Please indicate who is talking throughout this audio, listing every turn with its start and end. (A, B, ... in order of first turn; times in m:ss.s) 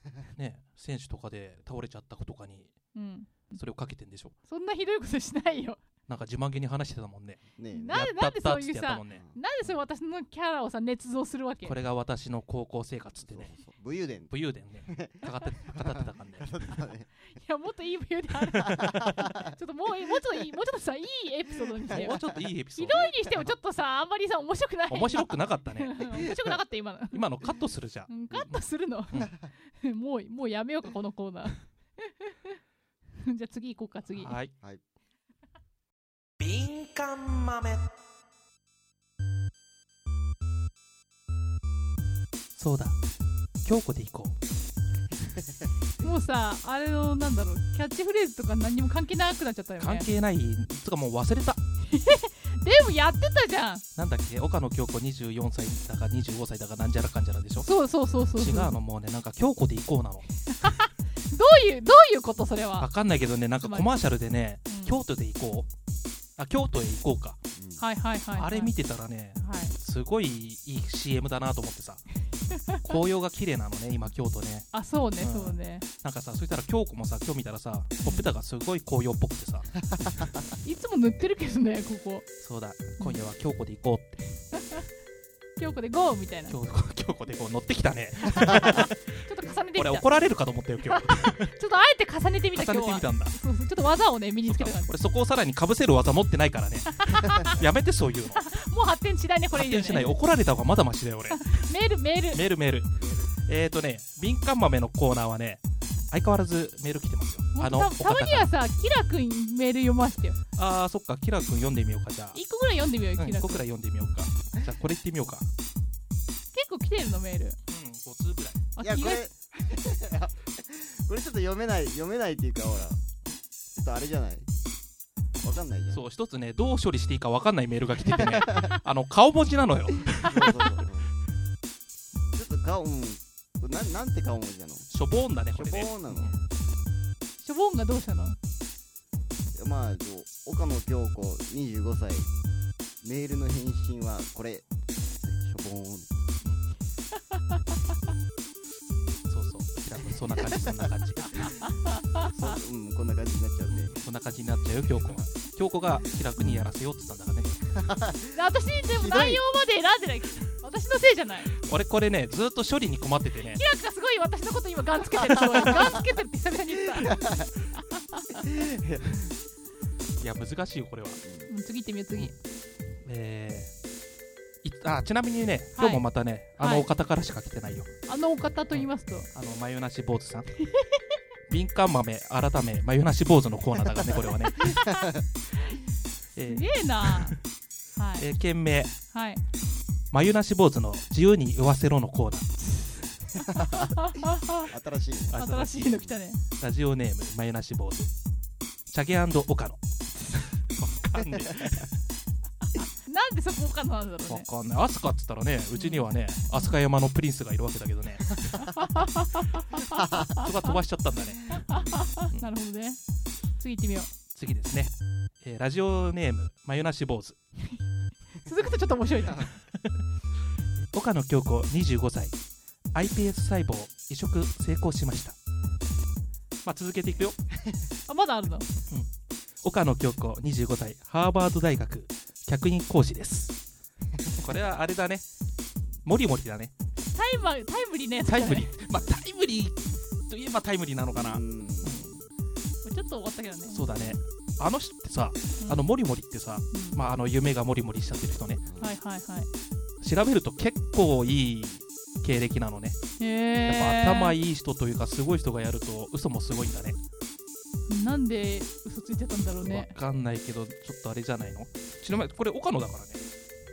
0:00.3-0:02.7 A
0:03.0-0:03.6 B
0:03.5-0:04.4 A
0:04.5-0:05.8 B
0:06.1-0:09.2 A
0:07.6-0:08.0 C
0:07.7-0:11.8 B
0:09.1-0:09.4 C
0:11.6-0:13.5 A
0:13.2-0:17.1 C
0:14.3-0:16.8 A
0:17.3-0:22.2 B
0:18.5-0:19.3 A
0:18.8-0:19.4 C
0:21.9-0:22.2 C
0:21.9-0:23.4 A
0:22.8-0:27.3 B
0:24.9-0:26.3 A
0:26.1-0:26.6 C
0:27.1-0:28.6 A
0:28.1-0:32.6 B
0:33.2-0:34.4 B
0:34.1-0:34.5 A
0:36.4-0:37.9 A
0:42.6-0:43.0 A
0:43.6-0:44.4 A
0:46.0-0:50.1 B
0:49.8-0:51.6 A
0:51.8-0:53.8 B
0:54.0-0:57.7 A
0:57.6-0:58.7 B
0:58.4-1:00.3 A
1:00.6-1:02.9 B
1:02.8-1:05.7 A
1:03.6-1:03.9 B
1:04.7-1:05.0 B
1:06.4-1:07.4 A
1:07.6-1:07.8 C
1:07.8-1:08.7 B
1:08.3-1:12.0 A
1:09.4-1:09.8 B
1:12.5-1:12.8 B
1:12.8-1:14.7 A
1:14.7-1:15.9 B
1:15.2-1:20.3 A
1:18.0-1:18.3 B
1:20.6-1:22.3 B
1:22.4-1:24.4 A
1:24.6-1:24.8 B
1:25.6-1:26.6 B
1:26.5-1:29.0 A
1:28.3-1:30.3 B
1:29.8-1:31.5 A
1:30.8-1:34.9 B
1:32.5-1:33.4 A
1:34.4-1:38.5 A
1:37.0-1:37.6 B
1:38.4-1:40.2 B
1:39.5-1:41.4 A
1:41.3-1:42.4 B
1:42.3-1:48.5 A
1:43.0-1:43.3 C
1:47.5-1:50.4 B
1:50.6-1:52.4 A
1:52.3-1:53.6 B
1:53.2-1:55.5 A
1:56.5-1:57.6 B
1:57.7-1:58.7 A
1:58.8-1:59.3 B
1:58.8-2:03.0 C
2:03.8-2:04.5 C
2:05.4-2:06.0 C
2:05.9-2:10.6 A
2:08.1-2:08.7 C
2:10.1-2:11.1 C
2:12.3-2:14.9 C
2:14.9-2:16.4 A
2:15.5-2:16.4 C
2:17.4-2:18.4 B
2:19.6-2:22.3 C
2:23.0-2:24.6 C
2:25.2-2:26.2 C
2:29.3-2:31.6 A
2:31.6-2:32.3 B
2:32.3-2:34.0 C
2:33.7-2:37.7 A
2:36.4-2:36.6 B
2:37.8-2:38.4 C
2:38.3-2:41.5 B
2:38.9-2:39.4 C
2:41.5-2:43.6 A
2:43.4-2:48.5 B
2:47.0-2:47.5 C
2:48.4-2:49.3 C
2:50.2-2:51.2 A
2:51.2-2:51.5 C
2:51.5-2:52.4 B
2:53.0-2:53.7 A
2:54.6-2:57.9 A
2:55.8-2:56.0 B
2:56.6-2:56.9 B
2:58.1-2:59.3 B
2:58.7-3:00.5 A
3:00.6-3:01.0 B
3:01.5-3:04.9 A
3:04.6-3:05.2 C
3:04.7-3:05.0 B
3:06.4-3:07.4 A
3:06.5-3:07.4 B
3:08.0-3:08.3 B
3:08.2-3:08.9 A
3:09.1-3:09.4 B
3:10.1-3:12.5 A
3:12.8-3:14.7 B
3:13.4-3:15.4 C
3:15.3-3:18.1 A
3:15.3-3:16.4 B
3:18.9-3:22.0 A
3:22.9-3:24.5 B
3:24.3-3:32.5 A
3:25.7-3:26.8 B
3:28.7-3:30.7 B
3:30.0-3:30.3 C
3:31.5-3:33.0 B
3:31.6-3:32.0 C
3:33.6-3:34.1 B
3:34.3-3:37.4 A
3:38.4-3:39.5 B
3:39.2-3:39.6 C
3:39.4-3:40.0 A
3:40.9-3:42.4 A
3:42.9-3:45.4 A
3:46.6-3:47.4 A
3:48.1-3:48.7 B
3:49.6-3:53.6 A
3:54.3-3:55.2 A
3:56.0-3:56.7 A
3:57.0-3:58.7 B
3:58.3-3:59.8 A
4:00.3-4:02.2 A
4:01.2-4:02.1 C
4:02.8-4:03.9 B
4:03.7-4:08.7 A
4:05.6-4:05.9 B
4:06.7-4:07.0 B
4:08.7-4:09.0 C
4:08.8-4:09.5 B
4:10.0-4:13.0 A
4:13.2-4:14.4 B
4:13.6-4:17.0 A
4:17.9-4:20.0 B
4:19.6-4:23.2 A